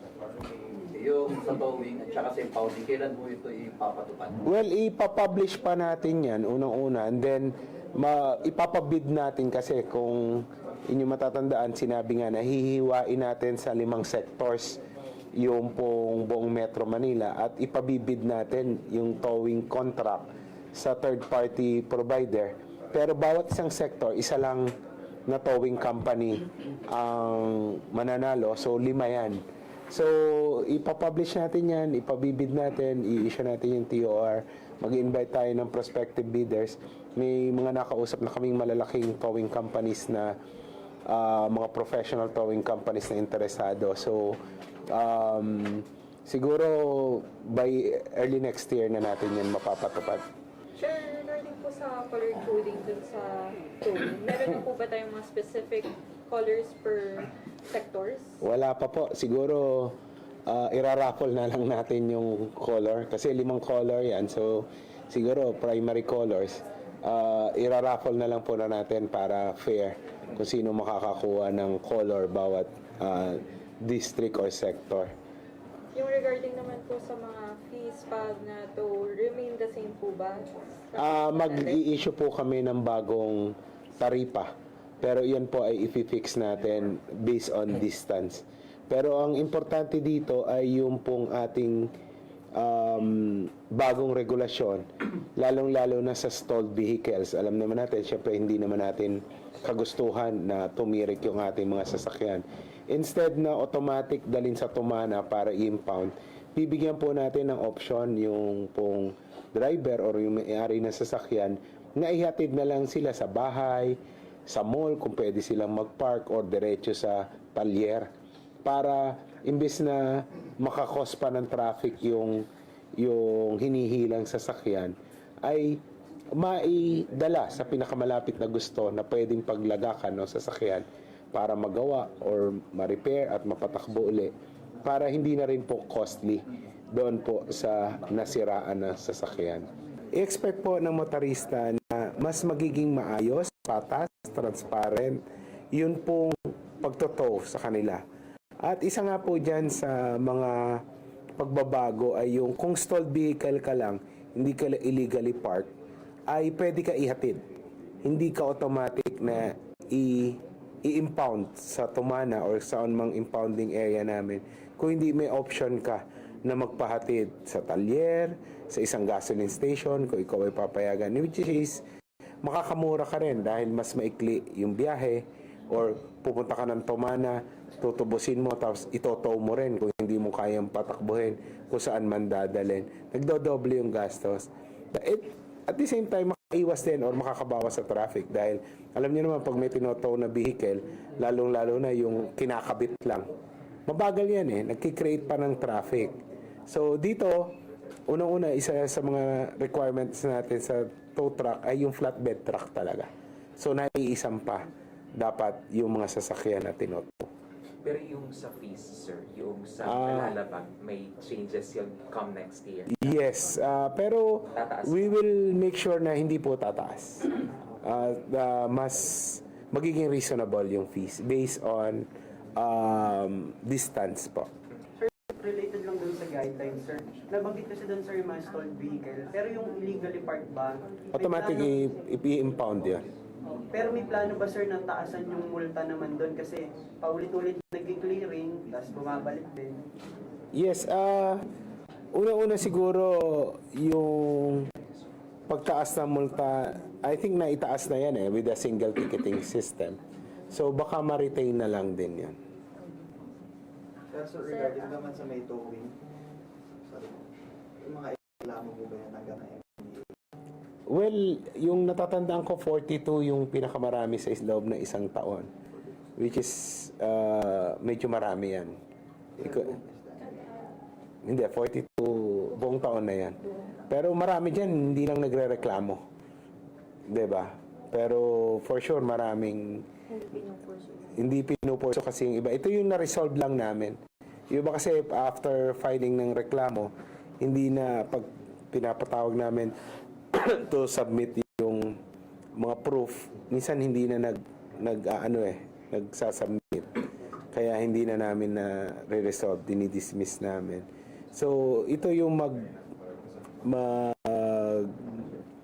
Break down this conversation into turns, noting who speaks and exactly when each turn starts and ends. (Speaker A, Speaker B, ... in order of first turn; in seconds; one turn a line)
Speaker A: 0.9-4.4
Speaker B: 4.4-14.8
Speaker B: 15.3-24.7
Speaker B: 25.3-40.4
Speaker B: 41.1-44.4
Speaker B: 44.9-50.2
Speaker C: 50.8-58.4
Speaker B: 58.4-75.1
Speaker C: 75.9-81.8
Speaker B: 80.9-91.9
Speaker B: 92.5-118.1
Speaker B: 118.6-122.5
Speaker B: 123.0-125.8
Speaker B: 126.3-145.2
Speaker B: 145.7-148.0
Speaker B: 148.6-150.8
Speaker B: 151.4-155.7
Speaker B: 156.3-157.4
Speaker B: 158.0-171.8
Speaker B: 172.4-193.3
Speaker B: 193.9-196.2
Speaker B: 196.7-197.6
Speaker B: 198.1-207.3
Speaker D: 207.8-213.2
Speaker B: 209.8-210.4
Speaker B: 212.9-224.5
Speaker D: 214.5-215.2
Speaker E: 225.0-231.7
Speaker B: 231.1-233.1
Speaker E: 233.7-239.8
Speaker B: 240.5-241.4
Speaker B: 242.1-244.7
Speaker B: 245.5-252.4
Speaker F: 254.1-255.9
Speaker F: 256.9-257.2
Speaker F: 257.8-260.1
Speaker B: 260.9-265.5
Speaker B: 266.2-268.7
Speaker F: 269.4-270.4
Speaker B: 269.4-269.7
Speaker B: 271.2-276.0
Speaker B: 277.1-279.9
Speaker C: 280.3-280.7
Speaker B: 281.0-284.0
Speaker B: 284.5-289.7
Speaker B: 290.3-292.0
Speaker B: 292.6-297.0
Speaker B: 297.5-302.7
Speaker B: 303.6-305.0